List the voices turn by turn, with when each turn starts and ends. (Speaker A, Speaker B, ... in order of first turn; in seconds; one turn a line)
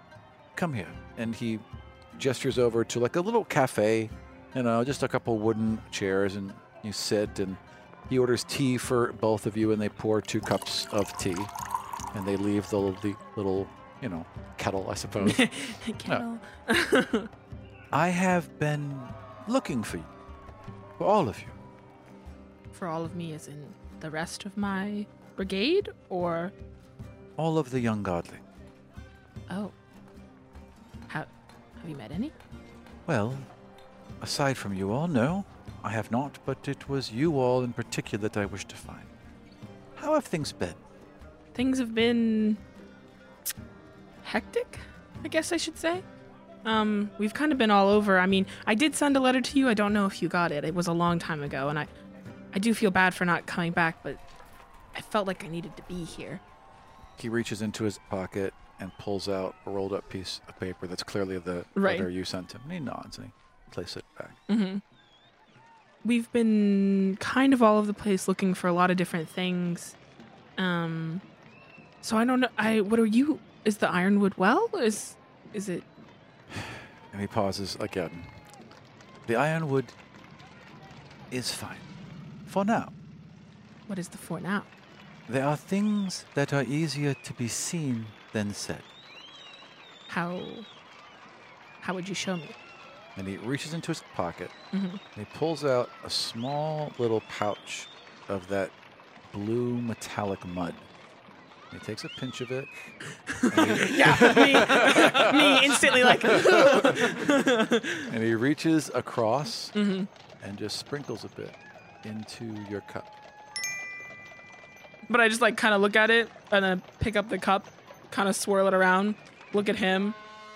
Speaker A: 0.5-1.6
Speaker A: 2.1-11.5
Speaker A: 12.1-15.5
Speaker B: 15.2-17.3
Speaker A: 17.9-20.1
Speaker A: 21.0-21.5
Speaker B: 22.7-26.5
Speaker A: 27.4-28.4
Speaker B: 29.5-29.7
Speaker B: 31.1-32.3
Speaker A: 33.0-33.5
Speaker A: 34.2-39.1
Speaker A: 40.0-40.8
Speaker B: 41.5-42.6
Speaker B: 44.2-46.0
Speaker B: 46.6-51.9
Speaker B: 52.5-54.2
Speaker B: 54.9-56.4
Speaker A: 57.2-64.4
Speaker B: 61.7-62.1
Speaker B: 64.5-64.8
Speaker B: 66.0-70.0
Speaker B: 70.6-71.2
Speaker B: 72.0-75.8
Speaker A: 76.5-78.3
Speaker A: 79.2-79.9
Speaker A: 81.3-81.8
Speaker A: 82.5-82.9
Speaker B: 83.9-84.7
Speaker A: 85.3-88.8
Speaker B: 90.1-90.7
Speaker B: 91.8-92.5
Speaker A: 93.2-94.6
Speaker B: 94.7-95.0
Speaker A: 95.1-98.7
Speaker A: 99.3-100.8
Speaker A: 101.7-102.7
Speaker B: 103.3-108.1
Speaker A: 103.5-107.4
Speaker A: 108.0-109.7
Speaker B: 109.7-110.1
Speaker A: 110.4-113.1
Speaker B: 115.1-120.2